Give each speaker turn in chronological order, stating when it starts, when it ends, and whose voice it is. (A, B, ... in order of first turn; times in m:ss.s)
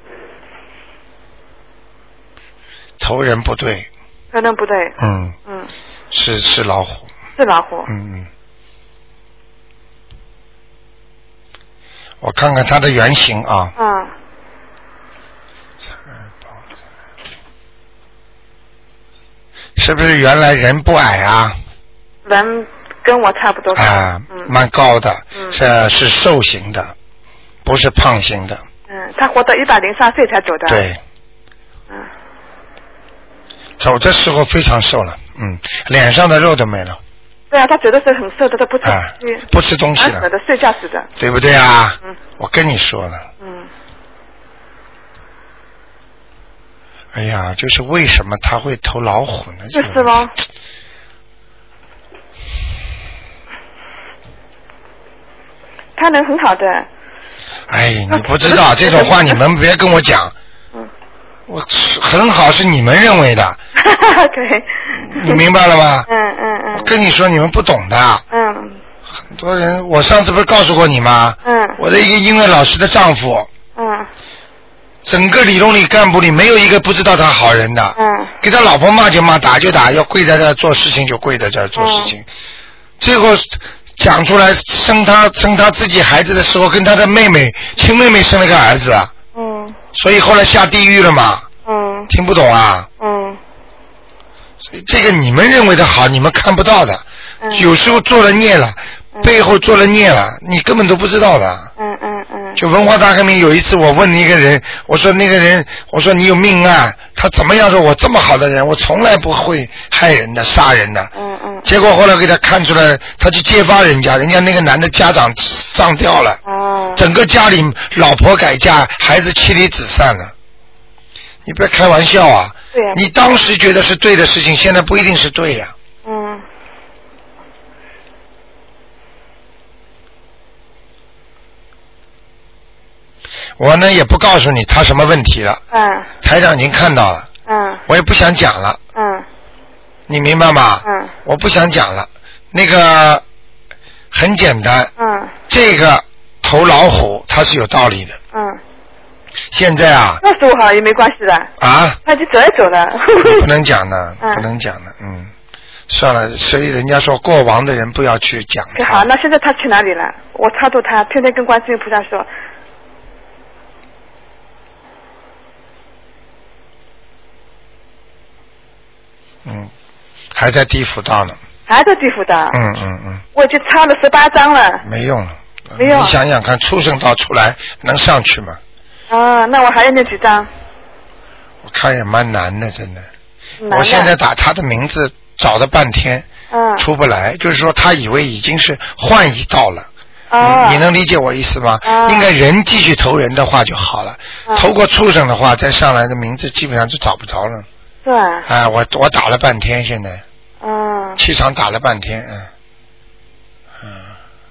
0:03.0-0:03.9 A
0:04.3-0:05.0 B
0:05.0-0:05.4 A
0:06.1-0:07.1 A
0:07.4-0:07.9 B
0:07.9-0:08.3 A
0:12.2-0:13.8 A
0:13.8-0:14.1 B
0:19.8-0:21.6 A
0:22.2-0:24.5 B
0:23.8-0:26.9 A
0:27.6-0:28.6 A
0:28.9-0:30.9 B
0:30.7-0:31.0 A
0:33.8-0:37.0 A
0:37.5-0:39.4 B
0:38.8-0:40.3 A
0:40.0-0:41.1 B
0:41.2-0:43.3 A
0:43.4-0:43.7 B
0:47.1-0:50.2 A
0:49.8-0:50.3 B
0:56.0-0:56.9 B
0:57.7-1:00.3 A
0:58.1-0:59.2 B
1:01.5-1:03.6 A
1:03.8-1:05.4 B
1:05.0-1:06.1 A
1:06.1-1:06.9 B
1:06.7-1:08.2 A
1:08.3-1:08.8 B
1:09.1-1:13.5 A
1:11.4-1:11.8 B
1:13.8-1:14.1 B
1:15.0-1:22.3 A
1:18.0-1:18.3 B
1:21.8-1:22.1 B
1:23.0-1:29.1 A
1:29.4-1:29.8 B
1:29.9-1:31.5 A
1:31.7-1:32.1 B
1:32.1-1:32.9 A
1:33.0-1:33.4 B
1:34.6-1:41.7 A
1:37.4-1:37.7 B
1:41.8-1:42.6 B
1:42.6-1:51.1 A
1:51.2-1:51.7 B
1:51.6-1:56.4 A
1:56.5-1:57.0 B
1:57.0-2:00.3 A
2:01.4-2:05.7 A
2:02.7-2:03.0 B
2:06.0-2:06.4 B
2:13.6-2:15.6 A
2:15.7-2:16.1 B
2:16.2-2:17.3 A
2:17.5-2:17.8 B
2:17.9-2:18.8 A
2:19.0-2:19.3 B
2:20.1-2:23.2 A
2:20.8-2:21.1 B
2:24.1-2:24.9 A
2:25.0-2:25.4 B
2:25.5-2:28.2 A
2:28.3-2:28.6 B
2:29.5-2:30.2 A
2:30.2-2:31.5 B
2:31.6-2:32.0 A
2:32.0-2:33.5 B
2:33.2-2:35.3 A
2:35.9-2:39.1 A
2:38.8-2:42.3 B
2:49.4-2:49.7 A
2:50.3-2:51.4 A
2:51.7-2:52.6 B
2:52.5-2:53.2 A
2:53.4-2:54.8 B
2:54.8-2:58.6 A
2:55.8-2:56.2 B
2:59.1-3:00.5 B
3:01.6-3:03.1 A
3:03.6-3:04.1 B
3:03.7-3:09.9 A
3:06.5-3:06.9 B
3:10.3-3:10.8 B
3:10.4-3:17.7 A
3:11.9-3:12.3 B
3:18.0-3:18.5 B
3:18.5-3:20.2 A
3:20.6-3:21.2 B
3:21.2-3:22.5 A
3:23.8-3:24.1 A